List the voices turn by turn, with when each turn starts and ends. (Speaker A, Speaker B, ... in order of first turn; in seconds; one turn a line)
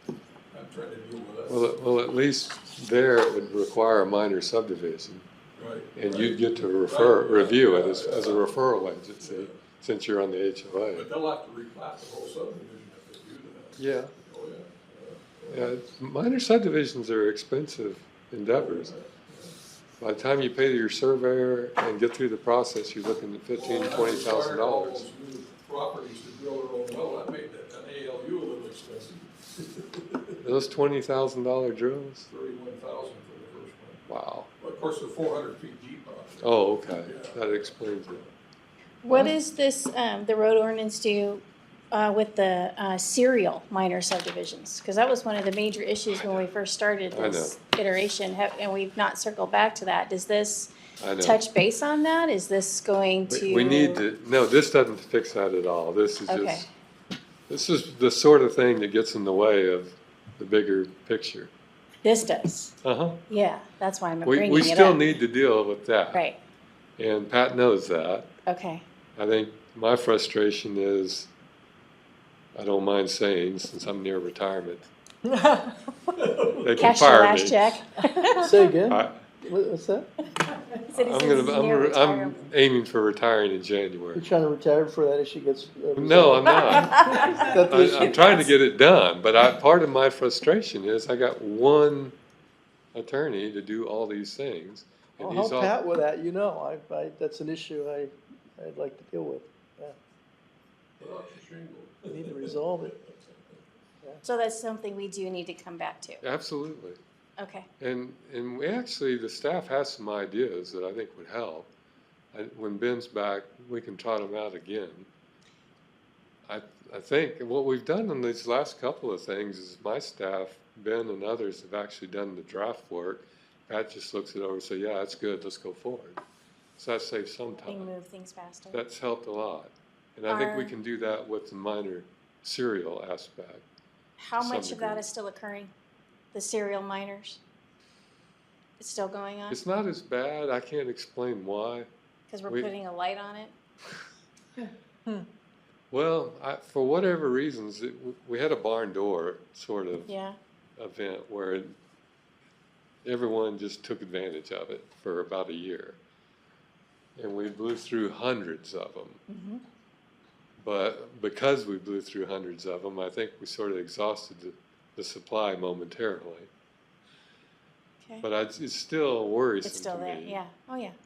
Speaker A: 0.5-1.6
Speaker B: 1.5-5.3
Speaker A: 5.5-6.3
Speaker B: 5.9-11.1
Speaker A: 6.8-8.4
Speaker A: 9.2-9.6
Speaker A: 10.9-15.7
Speaker B: 13.8-14.1
Speaker B: 15.5-18.9
Speaker A: 18.5-19.6
Speaker B: 20.0-25.0
Speaker A: 23.6-30.4
Speaker B: 30.4-32.3
Speaker A: 32.3-34.0
Speaker B: 34.1-34.5
Speaker A: 34.6-38.2
Speaker B: 36.4-38.2
Speaker C: 39.0-54.0
Speaker B: 39.1-39.3
Speaker A: 46.2-46.5
Speaker B: 47.1-47.5
Speaker B: 51.0-51.4
Speaker B: 53.3-56.7
Speaker C: 56.3-56.7
Speaker B: 57.5-61.5
Speaker C: 62.0-62.7
Speaker B: 62.8-63.2
Speaker C: 63.3-65.1
Speaker B: 64.2-66.2
Speaker B: 67.0-68.3
Speaker C: 68.5-68.8
Speaker B: 69.2-71.3
Speaker B: 72.5-74.9
Speaker A: 76.2-76.5
Speaker B: 76.5-77.8
Speaker C: 76.8-78.6
Speaker D: 78.4-80.1
Speaker C: 80.4-82.5
Speaker B: 80.9-84.2
Speaker D: 84.1-88.4
Speaker B: 86.0-92.2
Speaker C: 86.4-88.4
Speaker B: 92.9-95.7
Speaker D: 95.2-100.0
Speaker A: 101.0-103.6
Speaker D: 102.1-102.9
Speaker C: 104.2-106.2
Speaker B: 106.2-107.0
Speaker C: 107.4-107.7
Speaker B: 107.8-111.7
Speaker B: 112.3-115.1
Speaker B: 116.5-126.2
Speaker B: 126.8-127.9
Speaker C: 127.7-128.8
Speaker B: 128.7-133.6
Speaker C: 130.3-130.8
Speaker C: 134.2-135.7
Speaker B: 134.4-135.0
Speaker C: 136.3-137.4
Speaker C: 138.8-139.6
Speaker B: 139.5-141.9
Speaker C: 142.3-143.5
Speaker B: 145.9-150.1
Speaker C: 150.1-150.4
Speaker B: 150.8-151.8
Speaker B: 153.0-156.0
Speaker B: 157.2-159.2
Speaker C: 159.3-159.6
Speaker B: 160.6-166.5
Speaker B: 168.2-170.4
Speaker C: 169.6-170.9